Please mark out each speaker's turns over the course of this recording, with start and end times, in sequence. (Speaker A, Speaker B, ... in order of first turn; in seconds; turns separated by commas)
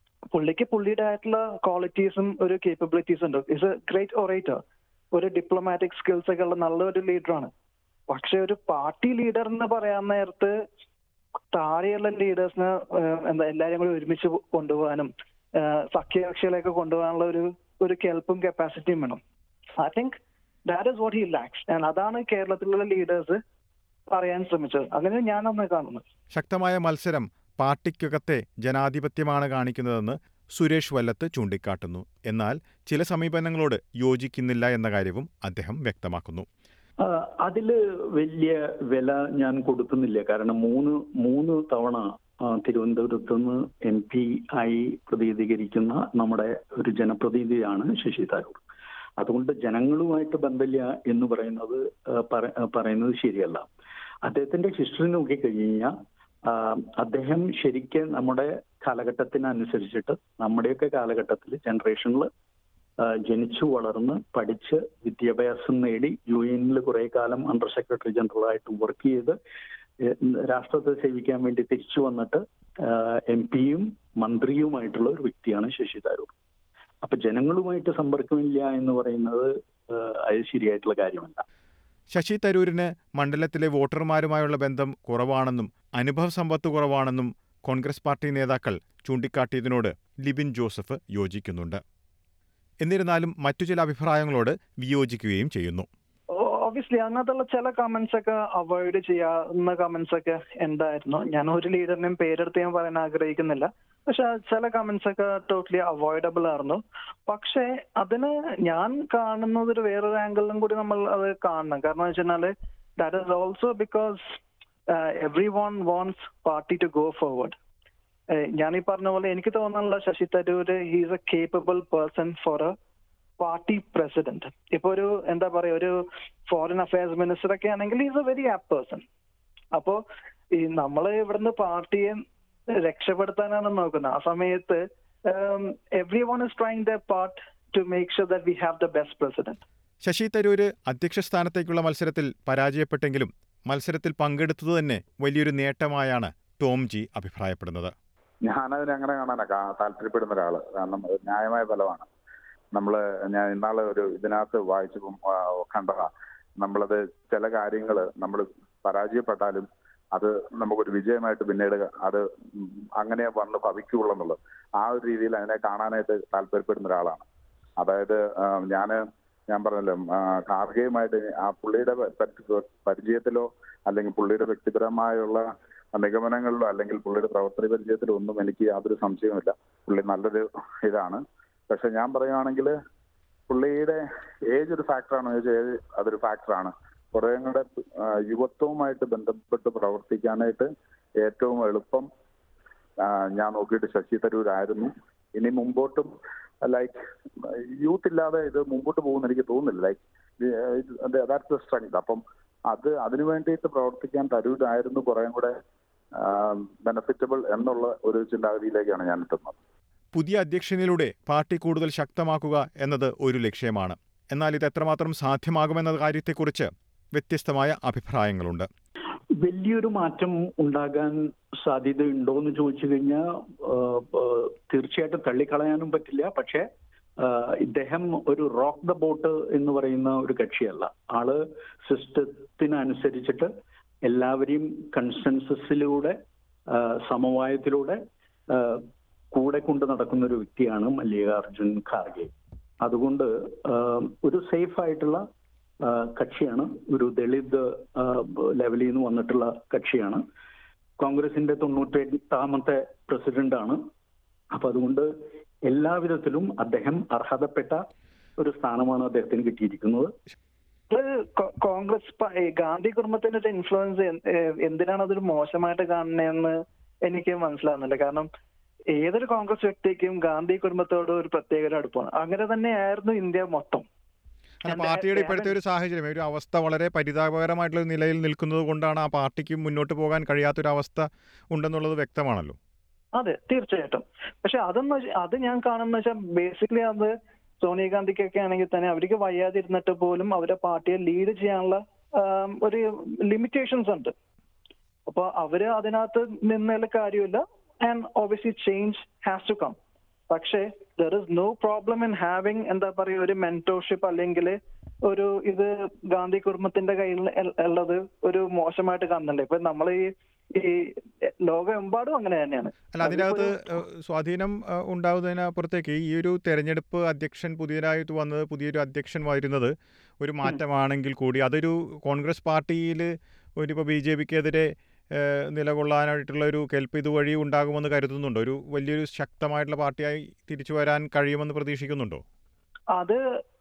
Speaker A: 0.3-4.6, Speaker A: 5.1-7.5, Speaker A: 8.1-10.5, Speaker A: 11.5-19.2, Speaker A: 19.8-23.4, Speaker A: 24.1-26.0, Speaker B: 26.3-36.5, Speaker C: 37.0-48.6, Speaker C: 49.2-53.7, Speaker C: 54.2-55.9, Speaker C: 56.5-62.3, Speaker C: 63.0-69.4, Speaker C: 70.0-76.3, Speaker C: 77.0-81.4, Speaker B: 82.1-91.8, Speaker B: 92.8-95.9, Speaker A: 96.3-114.4, Speaker A: 114.9-117.6, Speaker A: 118.3-122.7, Speaker A: 123.4-129.0, Speaker A: 129.7-130.0, Speaker A: 130.6-132.2, Speaker A: 132.8-139.6, Speaker B: 140.0-147.9, Speaker D: 148.4-152.1, Speaker D: 152.7-167.3, Speaker D: 167.8-182.7, Speaker D: 183.5-190.7, Speaker D: 191.2-192.1, Speaker D: 193.0-196.1, Speaker D: 196.7-197.0, Speaker D: 197.5-205.5, Speaker D: 206.2-209.6, Speaker B: 210.1-218.7, Speaker C: 219.4-226.7, Speaker C: 227.2-233.5, Speaker C: 234.1-236.2, Speaker C: 236.7-245.2, Speaker C: 245.8-250.2, Speaker C: 251.0-253.8, Speaker C: 254.5-255.1, Speaker C: 255.7-257.8, Speaker C: 258.4-260.1, Speaker A: 260.9-268.3, Speaker A: 268.9-273.9, Speaker B: 274.6-282.6, Speaker A: 274.7-275.5, Speaker A: 283.1-294.1, Speaker A: 295.1-299.8, Speaker A: 300.3-313.6, Speaker B: 312.9-332.2, Speaker A: 332.9-333.2